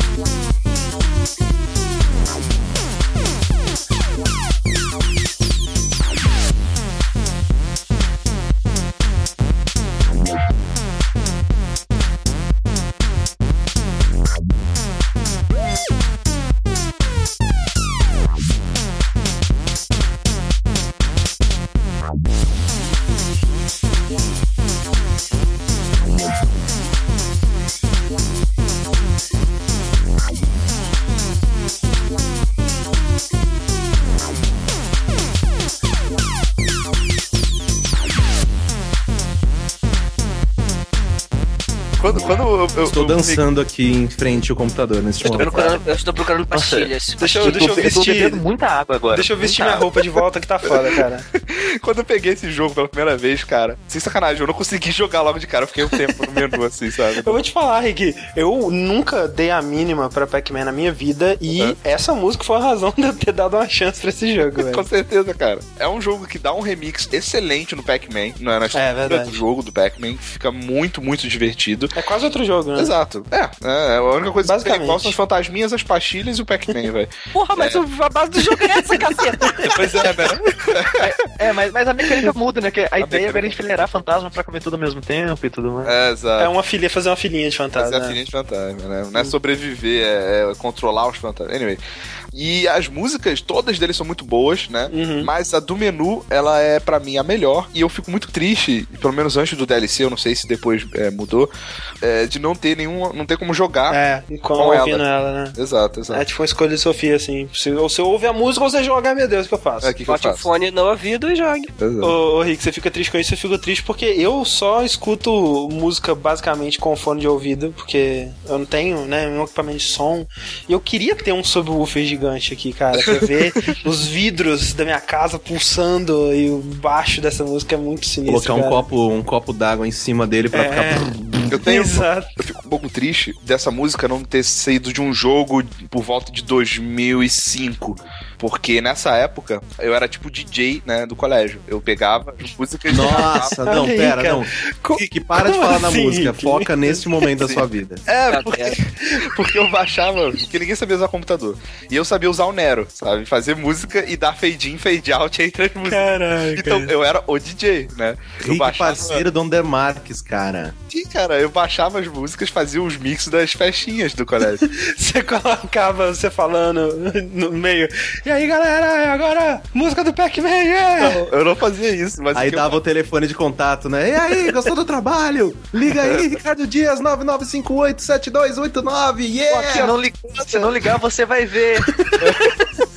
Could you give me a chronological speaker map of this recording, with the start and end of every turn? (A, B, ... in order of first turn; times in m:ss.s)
0:42.0-0:43.4 A
0:42.8-0:45.8 B
0:45.2-0:47.8 C
0:46.5-0:49.7 D
0:47.2-0:48.4 E
0:49.1-0:51.2 E
0:51.3-0:57.4 A
0:57.2-1:04.9 E
1:04.6-1:11.9 A
1:08.7-1:09.4 E
1:11.9-1:12.9 E
1:12.8-1:17.8 A
1:14.4-1:15.1 E
1:17.3-1:20.0 C
1:18.9-1:21.1 A
1:21.0-1:25.9 D
1:23.0-1:23.6 A
1:25.8-1:26.5 A
1:26.4-1:28.2 E
1:27.8-1:31.8 A
1:32.3-1:41.5 A
1:34.9-1:35.3 E
1:42.0-1:44.0 A
1:43.9-1:45.6 E
1:44.6-1:45.0 A
1:45.6-1:46.2 A
1:46.1-1:50.0 E
1:49.8-1:50.4 A
1:50.1-1:51.7 C
1:51.8-1:52.1 A
1:52.0-2:08.9 E
2:03.0-2:03.8 A
2:08.2-2:11.5 B
2:10.5-2:12.3 E
2:11.5-2:23.6 A
2:22.9-2:28.0 B
2:23.6-2:27.3 E
2:27.4-2:39.2 A
2:28.3-2:28.8 C
2:35.8-2:36.9 E
2:38.4-2:40.7 B
2:40.9-2:44.6 A
2:44.6-2:51.3 E
2:51.0-2:52.8 A
2:52.3-2:59.9 B
2:55.9-2:56.4 A
2:59.5-3:02.0 D
3:02.2-3:02.7 A